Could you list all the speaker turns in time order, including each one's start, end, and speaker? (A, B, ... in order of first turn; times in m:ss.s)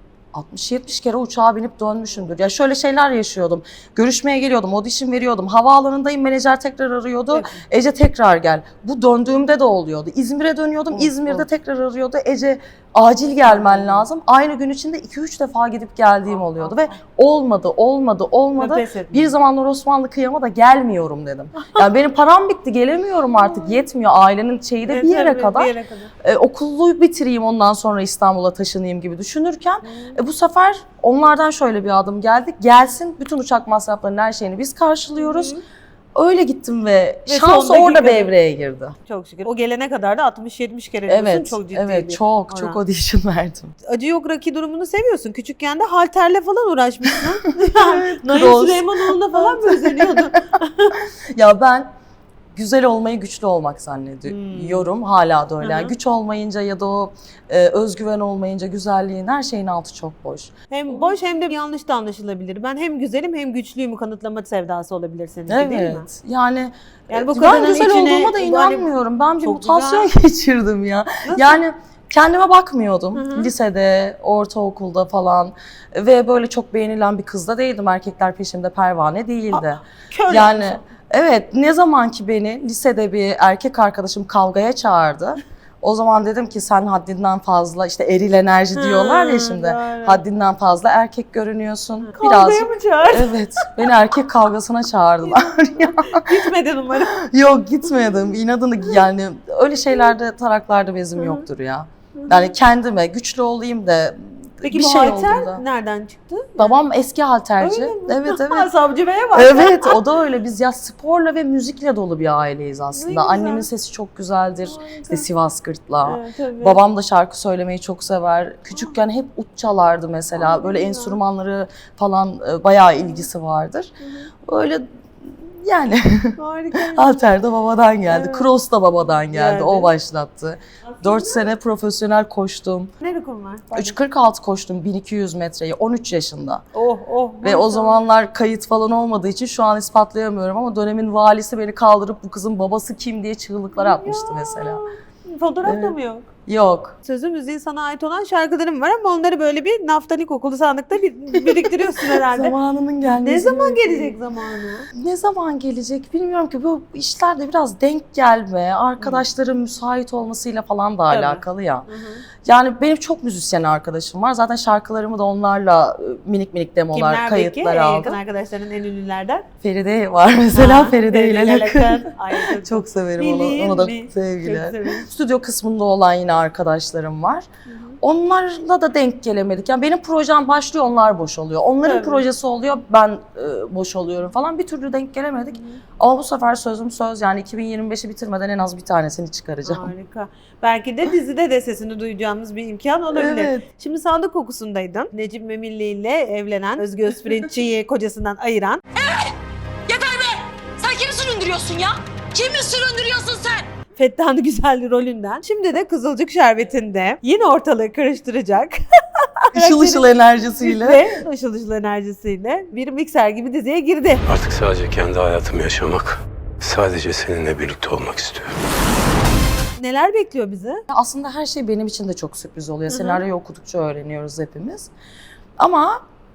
0:00.3-0:35.5 A
0:07.3-0:07.6 B
0:10.9-0:11.4 B
0:13.5-0:14.1 B
0:16.3-0:17.0 B
0:18.6-0:19.3 B
0:21.6-0:21.8 B
0:23.4-0:23.8 B
0:24.9-0:26.1 B
0:29.8-0:30.2 B
0:35.2-0:35.6 B
0:36.2-0:39.0 A
0:37.3-0:38.3 B
0:39.1-0:42.8 B
0:41.1-0:43.7 A
0:43.8-0:51.0 B
0:47.7-0:50.4 A
0:51.0-0:51.9 A
0:52.6-1:01.0 A
0:54.3-0:54.9 B
0:55.6-0:55.9 B
1:00.7-1:06.1 B
1:05.5-1:45.6 A
1:07.1-1:08.9 B
1:09.4-1:10.1 B
1:11.2-1:11.6 B
1:13.1-1:13.5 B
1:19.5-1:20.8 B
1:28.8-1:30.2 B
1:32.0-1:33.9 B
1:35.3-1:37.1 B
1:41.2-1:41.4 B
1:42.2-1:42.5 B
1:44.6-1:46.8 B
1:46.6-1:48.7 A
1:47.6-1:50.0 B
1:49.3-2:12.9 A
1:52.9-1:53.7 B
1:54.6-1:55.2 B
1:56.0-1:56.8 B
2:00.4-2:01.2 B
2:04.0-2:04.3 B
2:06.4-2:07.1 B
2:08.1-2:08.5 B
2:09.3-2:09.9 B
2:10.8-2:11.5 B
2:13.0-2:14.0 B
2:13.7-2:16.6 A
2:16.7-2:18.0 B
2:17.4-2:24.8 A
2:23.7-2:26.3 B
2:25.6-2:27.0 A
2:27.0-2:32.6 B
2:31.3-2:34.2 A
2:33.1-2:34.9 B
2:34.9-2:41.9 A
2:39.0-2:39.2 B
2:41.1-2:42.2 B
2:42.4-2:48.2 A
2:46.9-2:49.5 B
2:49.6-2:57.5 A
2:50.5-2:55.1 B
2:57.7-2:58.0 B
2:58.0-3:09.9 A
3:01.8-3:02.3 B
3:05.5-3:05.8 B
3:09.6-3:18.8 B
3:13.1-3:13.6 A
3:19.0-3:19.3 C
3:19.9-3:23.7 C
3:23.9-3:34.2 B
3:29.5-3:31.2 A
3:34.3-3:38.6 D
3:39.8-3:40.8 B
3:40.9-3:44.9 A
3:42.9-3:43.2 B
3:45.6-3:46.0 A